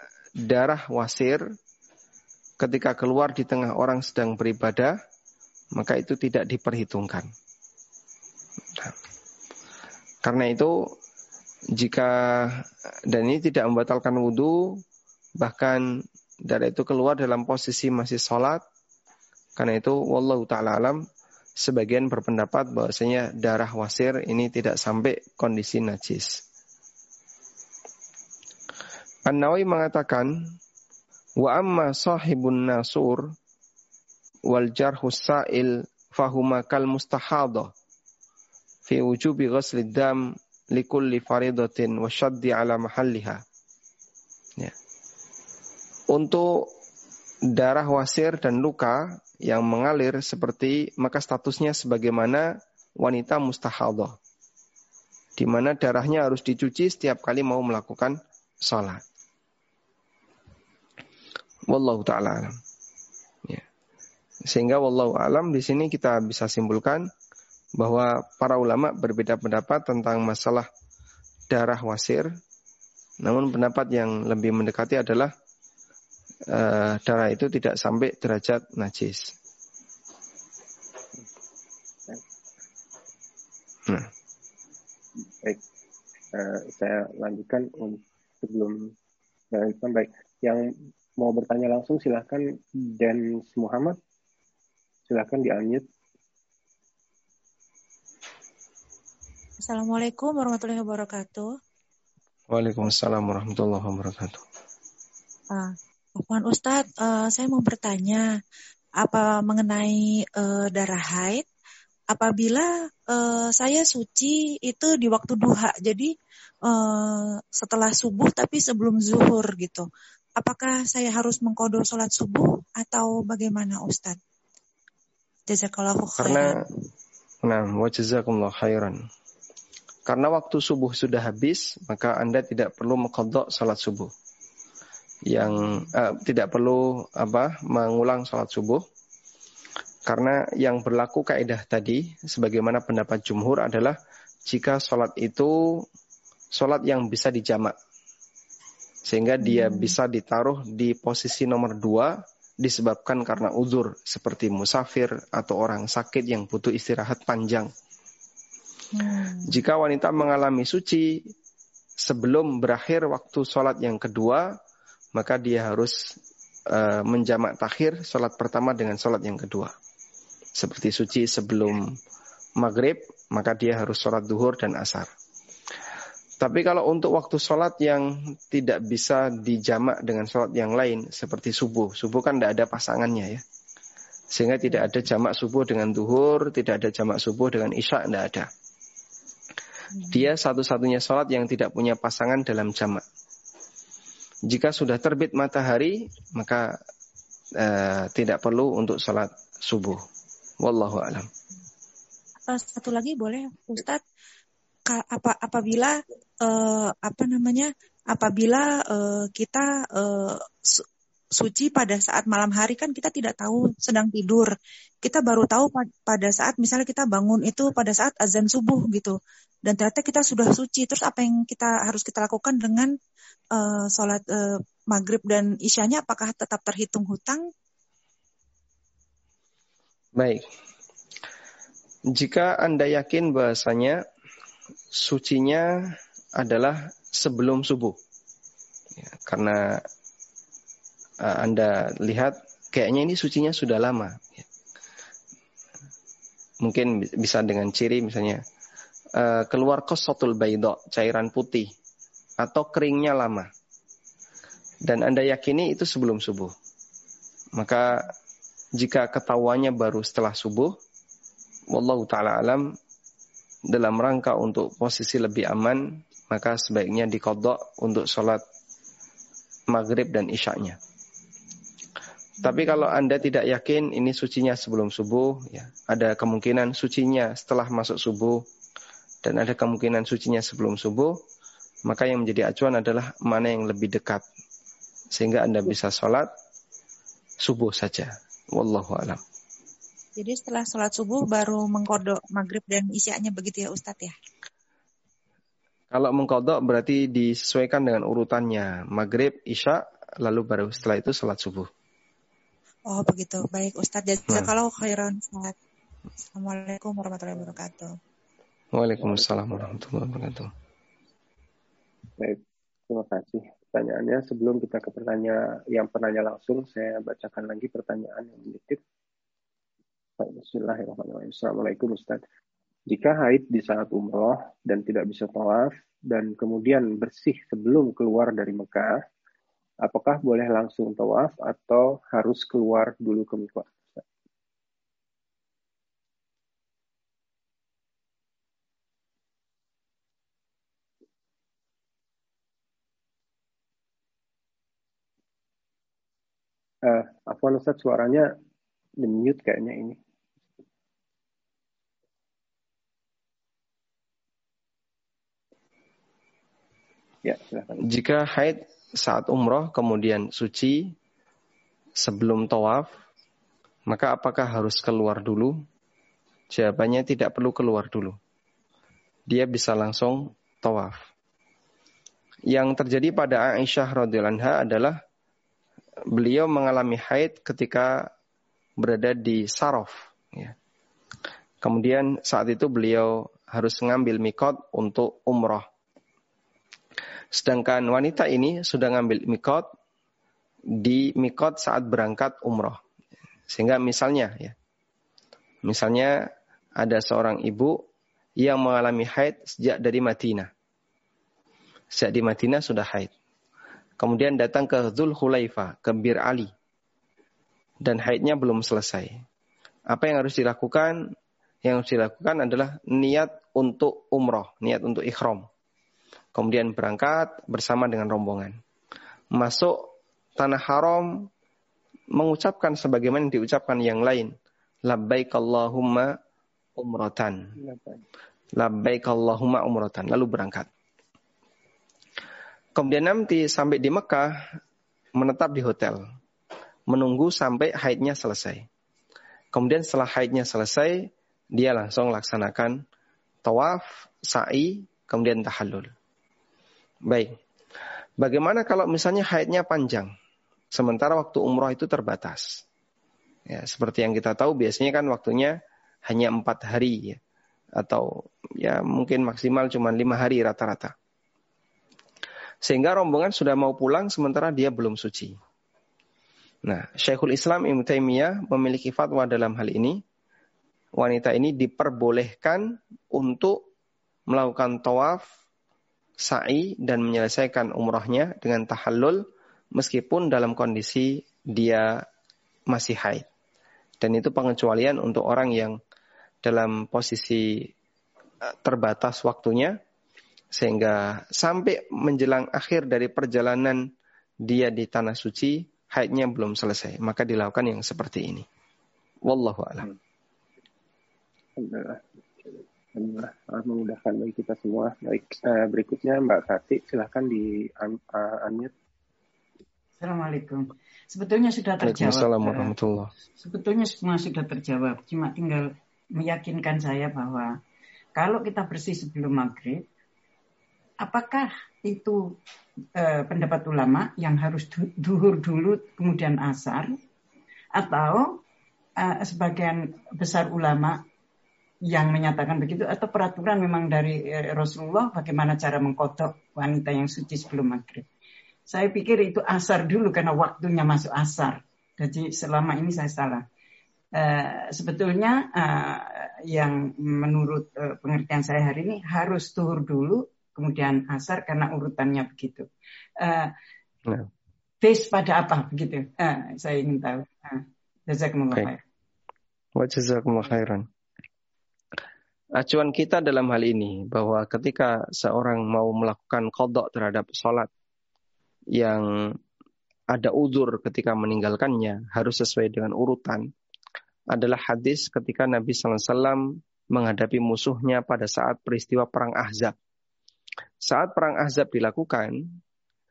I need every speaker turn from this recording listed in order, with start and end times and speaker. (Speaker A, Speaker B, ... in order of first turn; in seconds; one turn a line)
Speaker A: 0.4-1.4
Speaker A: 2.6-5.0
Speaker A: 5.8-7.3
Speaker A: 10.2-10.8
Speaker A: 11.8-14.7
Speaker A: 15.4-15.8
Speaker A: 16.4-18.6
Speaker A: 19.6-21.0
Speaker A: 21.6-26.4
Speaker A: 29.3-30.5
Speaker A: 31.4-33.3
Speaker A: 34.5-37.7
Speaker A: 38.9-43.4
Speaker A: 46.1-46.7
Speaker A: 47.5-52.5
Speaker A: 53.0-54.2
Speaker A: 55.4-59.0
Speaker A: 61.7-62.6
Speaker A: 64.5-67.1
Speaker A: 67.8-70.7
Speaker A: 71.5-72.3
Speaker A: 73.2-75.3
Speaker A: 76.5-79.3
Speaker B: 85.2-85.6
Speaker B: 86.3-88.9
Speaker B: 89.5-94.0
Speaker B: 95.1-95.8
Speaker C: 99.6-101.5
Speaker A: 102.5-104.4
Speaker C: 105.5-108.2
Speaker C: 109.0-111.5
Speaker C: 112.1-116.1
Speaker C: 116.7-119.9
Speaker C: 120.4-124.2
Speaker C: 125.5-126.5
Speaker A: 126.2-126.5
Speaker A: 127.4-129.0
Speaker A: 130.1-134.1
Speaker A: 135.3-138.8
Speaker A: 140.1-144.0
Speaker A: 144.5-145.8
Speaker A: 146.5-147.8
Speaker A: 149.1-157.7
Speaker C: 149.4-149.9
Speaker C: 158.9-159.5
Speaker A: 159.5-161.2
Speaker A: 162.0-164.5
Speaker A: 165.2-166.1
Speaker A: 166.7-169.7
Speaker A: 170.6-171.9
Speaker A: 172.6-175.1
Speaker A: 176.4-183.4
Speaker A: 184.3-188.5
Speaker A: 190.1-193.0
Speaker A: 194.5-196.8
Speaker A: 197.6-200.0
Speaker A: 200.6-201.3
Speaker C: 202.5-204.0
Speaker C: 204.9-210.8
Speaker C: 211.4-214.5
Speaker C: 215.0-222.9
Speaker C: 223.6-227.5
Speaker A: 230.2-230.5
Speaker A: 232.1-234.0
Speaker A: 234.9-235.7
Speaker A: 236.4-238.0
Speaker A: 239.0-239.8
Speaker A: 241.2-244.4
Speaker A: 246.6-248.4
Speaker A: 249.2-251.7
Speaker A: 252.4-253.5
Speaker A: 254.8-256.5
Speaker A: 257.6-258.1
Speaker A: 258.8-260.8
Speaker A: 261.7-262.7
Speaker A: 263.7-268.4
Speaker A: 269.7-270.8
Speaker A: 272.4-278.4
Speaker A: 279.2-281.2
Speaker A: 281.9-284.2
Speaker A: 285.1-286.3
Speaker A: 287.4-289.2
Speaker C: 290.2-294.1
Speaker A: 295.9-301.7
Speaker C: 302.9-305.6
Speaker C: 306.3-307.9
Speaker A: 308.7-310.5
Speaker B: 309.0-309.7
Speaker B: 312.2-318.8
Speaker B: 320.2-322.2
Speaker B: 322.9-329.0
Speaker B: 329.8-334.0
Speaker B: 346.8-348.3
Speaker B: 349.0-350.0
Speaker B: 357.2-357.8
Speaker A: 357.8-360.9
Speaker A: 362.0-362.9
Speaker A: 363.9-365.6
Speaker A: 366.5-368.2
Speaker A: 369.3-371.0
Speaker A: 372.5-375.0
Speaker A: 376.1-378.1
Speaker A: 378.8-380.6
Speaker A: 381.6-385.6
Speaker A: 387.3-389.7
Speaker A: 390.8-392.8
Speaker A: 393.5-394.6
Speaker A: 395.6-396.3
Speaker A: 396.8-397.8
Speaker A: 398.4-400.5
Speaker A: 401.9-403.1
Speaker A: 404.0-406.5
Speaker A: 407.8-409.2
Speaker A: 409.9-411.1
Speaker A: 411.6-415.5
Speaker A: 416.3-418.6
Speaker A: 419.3-421.3
Speaker A: 422.1-424.3
Speaker A: 424.9-426.1
Speaker A: 426.8-427.5
Speaker B: 427.6-428.0
Speaker A: 428.6-430.7
Speaker A: 432.8-434.4
Speaker A: 435.2-436.0
Speaker A: 436.9-438.6
Speaker A: 439.5-442.8
Speaker A: 443.4-445.9
Speaker A: 447.1-447.3
Speaker A: 448.2-450.1
Speaker A: 450.7-452.6
Speaker A: 453.5-457.2
Speaker A: 457.8-460.9
Speaker A: 462.6-465.4
Speaker A: 466.6-470.0
Speaker A: 471.0-473.6
Speaker A: 474.3-475.2
Speaker A: 476.2-479.2
Speaker A: 479.8-482.0
Speaker A: 482.7-483.2
Speaker A: 484.0-485.8
Speaker A: 486.4-487.7
Speaker A: 488.4-489.8
Speaker A: 490.5-493.8
Speaker A: 494.4-498.5
Speaker A: 499.3-499.9
Speaker B: 501.6-508.7
Speaker D: 510.0-512.7
Speaker A: 511.8-513.1
Speaker D: 513.4-517.6
Speaker D: 518.1-519.8
Speaker D: 521.0-522.4
Speaker D: 522.9-527.0
Speaker D: 527.7-528.4
Speaker D: 529.0-531.0
Speaker D: 531.9-538.1
Speaker D: 538.7-543.4
Speaker D: 544.1-552.7
Speaker D: 553.2-553.5
Speaker D: 554.8-558.8
Speaker A: 559.8-560.9
Speaker A: 562.6-567.7
Speaker A: 568.8-569.4
Speaker A: 570.1-573.5
Speaker A: 574.3-579.8
Speaker A: 580.8-582.5